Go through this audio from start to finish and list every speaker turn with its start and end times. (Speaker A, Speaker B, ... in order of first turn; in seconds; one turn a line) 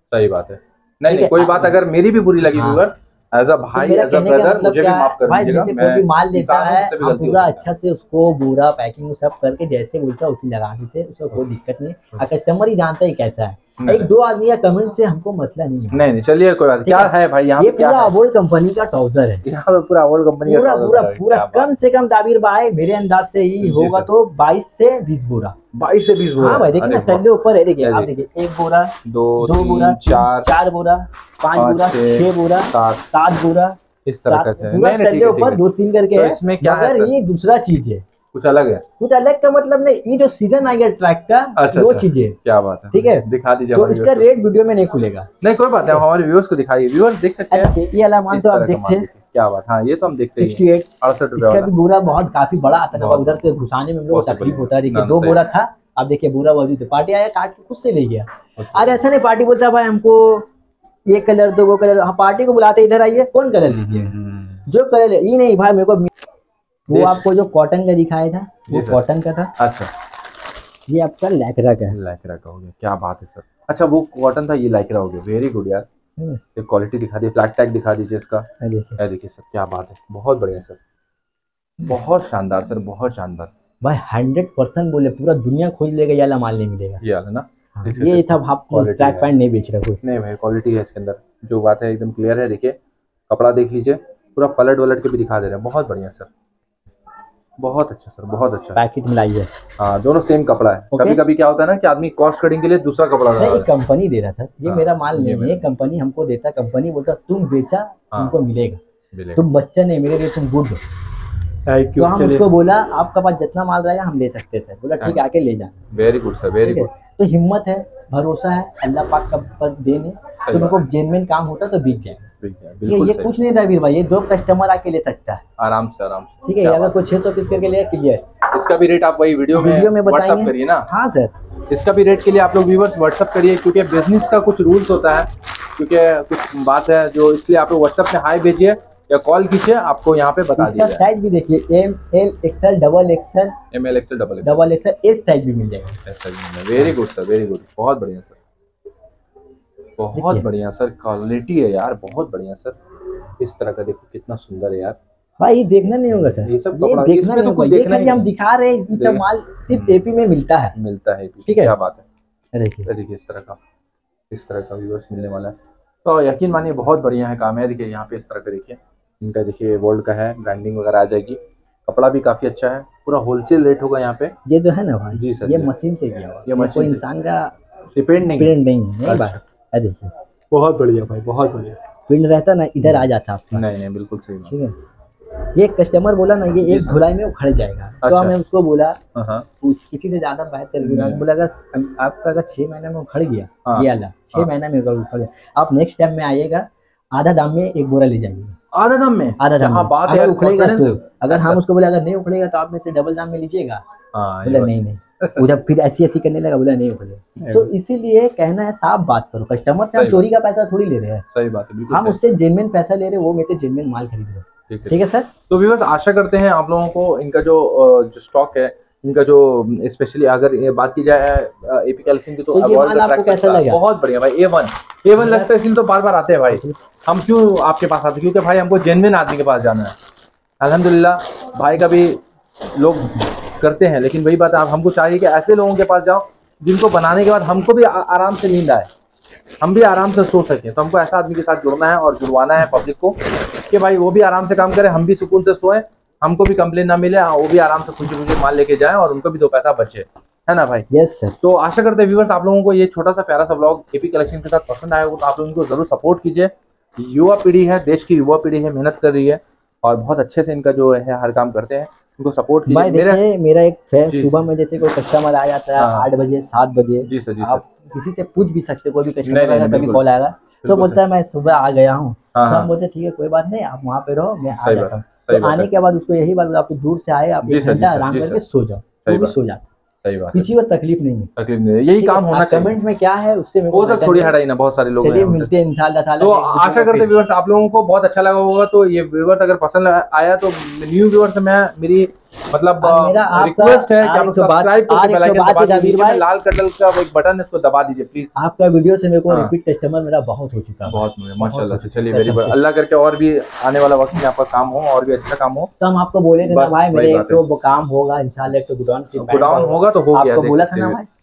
Speaker A: 0.1-7.7
Speaker B: 1.1-1.8
Speaker B: 2.4-2.8
Speaker B: 3.7-16.0
Speaker A: 13.8-14.1
Speaker A: 15.9-18.1
Speaker B: 16.8-19.4
Speaker A: 19.4-21.8
Speaker B: 20.4-25.6
Speaker A: 23.6-24.1
Speaker A: 25.7-27.2
Speaker B: 26.4-38.0
Speaker A: 27.8-28.1
Speaker A: 29.0-30.5
Speaker A: 31.5-33.1
Speaker A: 34.0-37.1
Speaker A: 38.3-38.8
Speaker B: 39.0-42.4
Speaker A: 41.5-44.3
Speaker B: 42.9-45.3
Speaker A: 45.4-47.7
Speaker B: 47.5-49.1
Speaker A: 48.3-51.7
Speaker B: 50.3-60.5
Speaker A: 53.0-53.4
Speaker A: 54.1-55.4
Speaker A: 58.6-59.0
Speaker B: 61.1-64.1
Speaker A: 63.6-64.6
Speaker B: 64.7-66.1
Speaker B: 66.9-69.5
Speaker A: 66.9-67.2
Speaker A: 68.7-69.0
Speaker A: 69.6-69.9
Speaker B: 70.9-72.0
Speaker A: 71.9-75.9
Speaker A: 76.5-78.5
Speaker B: 78.6-79.0
Speaker A: 79.0-80.8
Speaker A: 81.8-83.5
Speaker B: 83.8-87.0
Speaker A: 87.0-89.3
Speaker B: 87.7-90.0
Speaker A: 90.0-92.8
Speaker A: 93.3-96.3
Speaker A: 97.6-98.8
Speaker B: 98.8-99.5
Speaker A: 99.8-103.7
Speaker B: 100.9-101.2
Speaker B: 103.4-108.8
Speaker A: 104.6-105.6
Speaker A: 109.1-109.4
Speaker B: 109.3-110.8
Speaker A: 111.7-112.5
Speaker B: 112.0-115.7
Speaker A: 115.0-115.2
Speaker A: 115.9-116.9
Speaker B: 116.6-122.3
Speaker A: 120.4-120.9
Speaker A: 122.4-123.3
Speaker B: 122.8-125.4
Speaker A: 125.6-127.0
Speaker B: 126.4-128.2
Speaker A: 128.5-130.9
Speaker B: 129.5-131.3
Speaker A: 131.7-141.1
Speaker B: 140.6-143.6
Speaker A: 143.7-144.7
Speaker B: 144.4-146.0
Speaker A: 146.1-148.4
Speaker A: 150.0-152.8
Speaker B: 150.1-150.4
Speaker A: 153.4-155.0
Speaker B: 155.4-160.8
Speaker A: 156.2-158.3
Speaker A: 158.9-160.0
Speaker A: 160.8-162.0
Speaker B: 161.5-161.7
Speaker B: 162.5-162.9
Speaker A: 162.8-163.6
Speaker A: 164.3-174.3
Speaker B: 174.4-177.5
Speaker A: 175.1-175.7
Speaker A: 176.4-177.0
Speaker A: 177.9-178.5
Speaker B: 178.2-180.1
Speaker A: 179.1-179.4
Speaker A: 180.5-181.8
Speaker B: 182.1-183.7
Speaker A: 182.8-184.5
Speaker B: 184.5-184.8
Speaker B: 185.4-189.0
Speaker A: 186.5-187.0
Speaker A: 188.0-188.3
Speaker A: 189.1-189.4
Speaker B: 189.6-198.6
Speaker A: 190.8-191.2
Speaker A: 193.6-194.5
Speaker A: 198.7-201.6
Speaker B: 199.4-203.8
Speaker A: 204.1-205.5
Speaker B: 204.4-211.2
Speaker A: 207.4-207.7
Speaker A: 209.8-210.3
Speaker A: 211.3-212.2
Speaker B: 211.9-215.3
Speaker A: 214.7-229.9
Speaker B: 222.5-223.8
Speaker B: 225.2-225.5
Speaker A: 230.6-238.9
Speaker A: 239.6-250.8
Speaker B: 250.9-251.4
Speaker A: 251.4-263.2
Speaker B: 262.7-279.6
Speaker A: 264.1-264.4
Speaker A: 265.8-266.1
Speaker A: 267.0-267.6
Speaker A: 269.2-270.1
Speaker A: 270.6-271.0
Speaker A: 272.3-272.7
Speaker A: 274.6-275.7
Speaker A: 277.4-278.4
Speaker A: 279.1-279.4
Speaker A: 280.0-280.5
Speaker B: 280.3-281.3
Speaker A: 281.4-282.8
Speaker B: 282.0-284.4
Speaker A: 283.7-285.5
Speaker B: 285.0-287.1
Speaker A: 286.2-298.3
Speaker B: 292.8-296.2
Speaker B: 298.3-302.6
Speaker A: 299.3-299.5
Speaker A: 300.9-305.7
Speaker B: 305.8-311.1
Speaker A: 306.4-307.4
Speaker A: 309.1-311.0